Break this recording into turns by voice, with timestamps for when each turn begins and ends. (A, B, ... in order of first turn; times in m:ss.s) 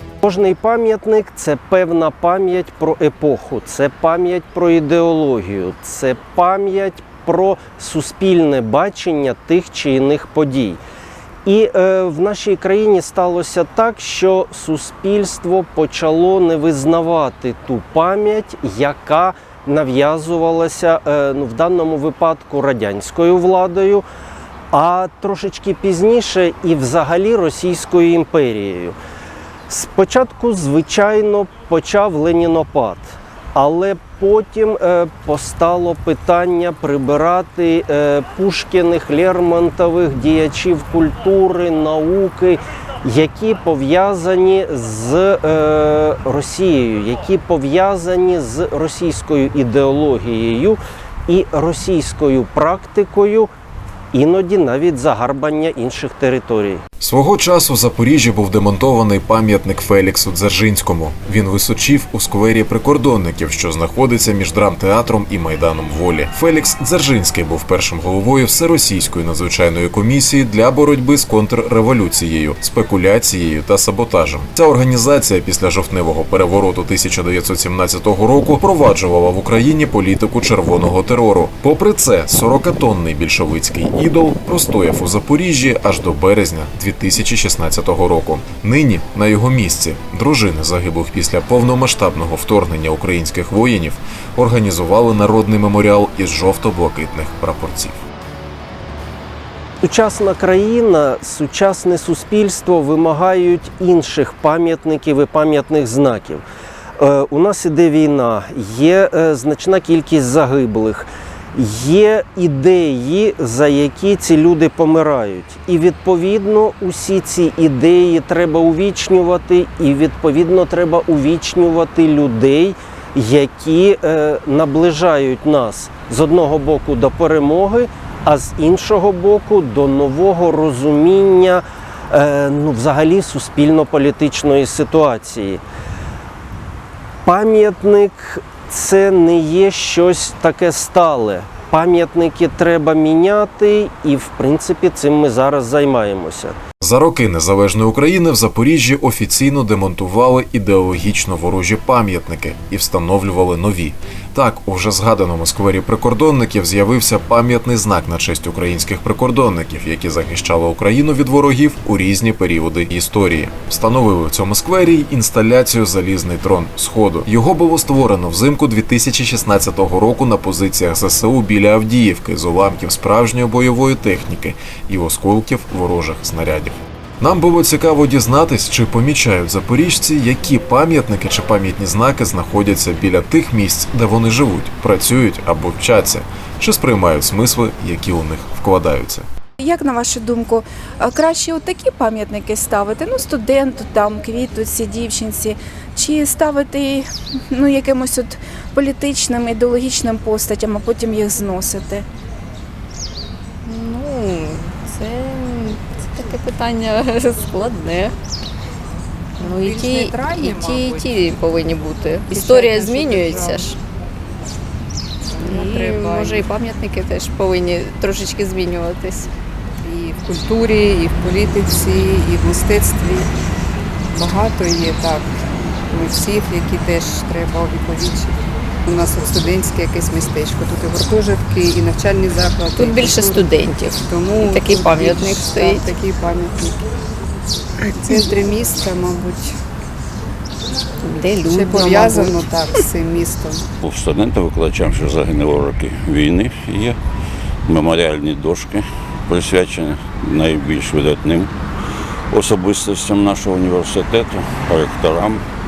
0:00.2-0:10.8 A
0:11.4-0:24.0 A
0:24.7-0:29.0 A
0:29.7-0:53.5 A
0:54.1-0:56.8 A
0:57.0-1:38.0 B
1:39.8-1:46.4 A
1:47.0-2:15.6 A
2:17.2-2:26.6 A
2:26.8-3:09.2 B
3:09.6-3:22.0 C
3:23.6-3:28.1 D
3:29.4-3:33.8 D
3:29.4-3:31.1 E
3:32.3-3:33.7 E
3:35.3-3:36.5 E
3:35.4-3:39.3 D
3:39.8-3:43.3 E
3:44.1-3:45.3 E
3:45.9-3:48.4 E
3:48.9-3:56.8 E
3:52.7-3:55.9 D
3:57.9-3:59.6 E
4:01.0-4:02.5 D
4:01.4-4:03.7 E
4:03.8-4:07.0 F
4:07.7-4:11.5 F
4:12.3-4:15.4 F